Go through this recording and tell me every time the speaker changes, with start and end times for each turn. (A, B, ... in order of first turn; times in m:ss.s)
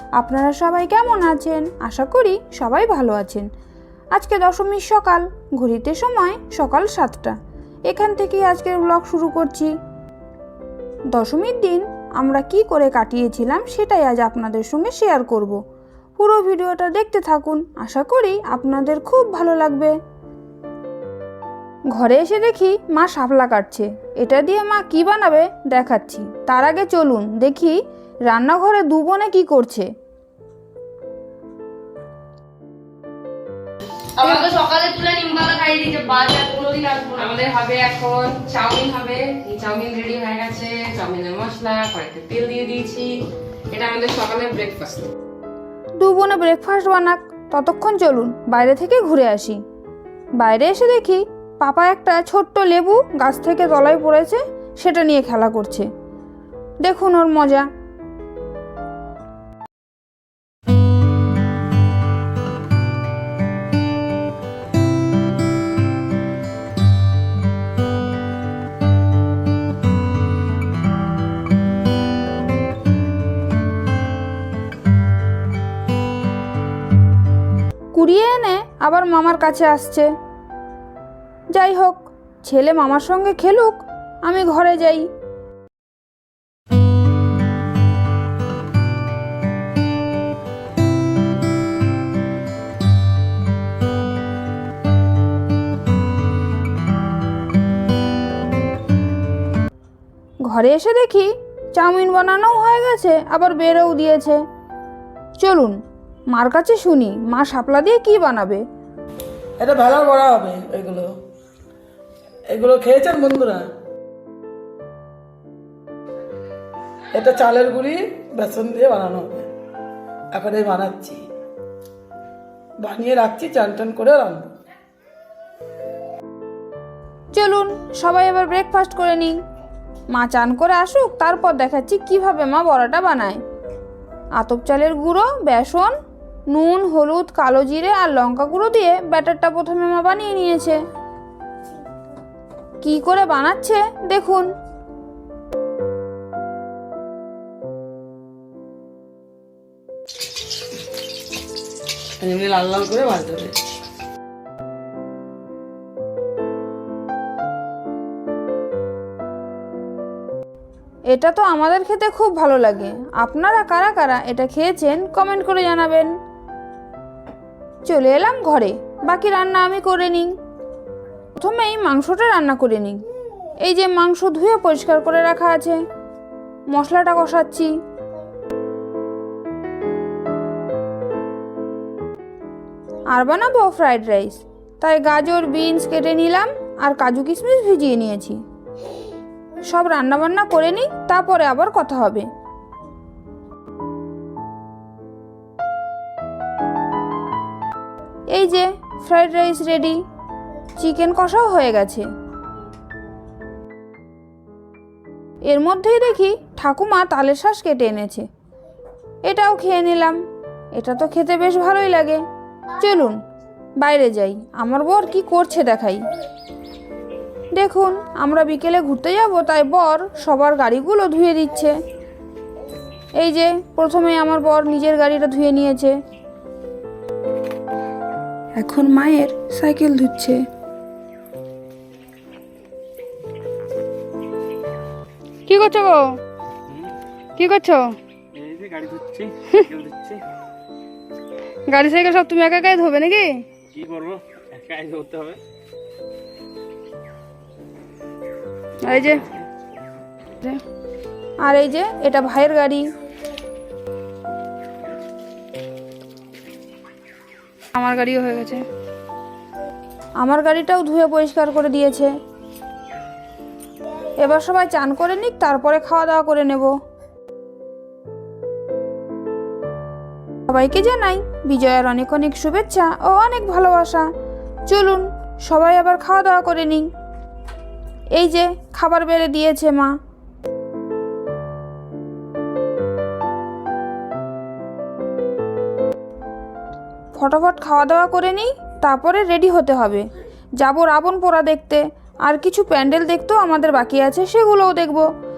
0:00.2-0:03.5 A
0:04.2-0:07.4 A
0:07.9-0:09.7 A
0:11.1-0:15.6 A
0:16.2-0:20.0 A
0:21.9-0:29.9 A
0:34.2-0:37.3 B
0:37.3-0:43.2 C
0:43.7-0:45.1 C
0:46.0-0:49.6 A
0:50.4-0:55.9 A
0:56.8-0:57.7 A
1:17.9-1:20.1 A
1:21.5-1:25.1 A
1:40.5-1:44.4 A
1:45.4-1:45.8 A
1:46.3-1:48.6 A
1:49.6-1:51.2 D
1:52.5-1:53.7 D
1:57.1-1:59.5 D
2:00.3-2:01.2 D
2:02.8-2:04.4 D
2:07.3-2:09.4 A
2:10.1-2:13.4 A
2:14.4-2:16.0 A
2:16.5-2:20.8 A
2:22.8-2:24.5 A
2:32.2-2:33.6 D
2:41.1-2:46.1 A
2:47.8-2:50.3 A
2:51.4-2:53.0 A
2:53.6-2:55.8 A
2:56.7-2:57.8 A
3:03.1-3:08.4 A
3:09.6-3:12.3 A
3:18.3-3:20.0 A
3:20.8-3:22.1 A
3:25.5-3:28.3 A
3:29.3-3:30.2 A
3:30.8-3:32.2 A
3:32.8-3:33.2 A
3:33.8-3:36.1 A
3:37.5-3:41.8 A
3:43.2-3:46.0 A
3:48.6-3:50.4 A
3:55.5-3:56.2 A
3:57.4-3:58.0 A
3:58.4-4:00.2 E
4:01.7-4:03.4 A
4:03.7-4:05.4 E
4:08.8-4:09.3 A
4:11.4-4:12.9 A
4:17.8-4:18.6 A
4:20.2-4:22.1 A
4:24.2-4:26.7 A
4:30.5-4:34.1 A
4:34.7-4:36.9 A
4:38.2-4:40.0 A
4:47.1-4:50.1 A
4:50.6-4:55.1 A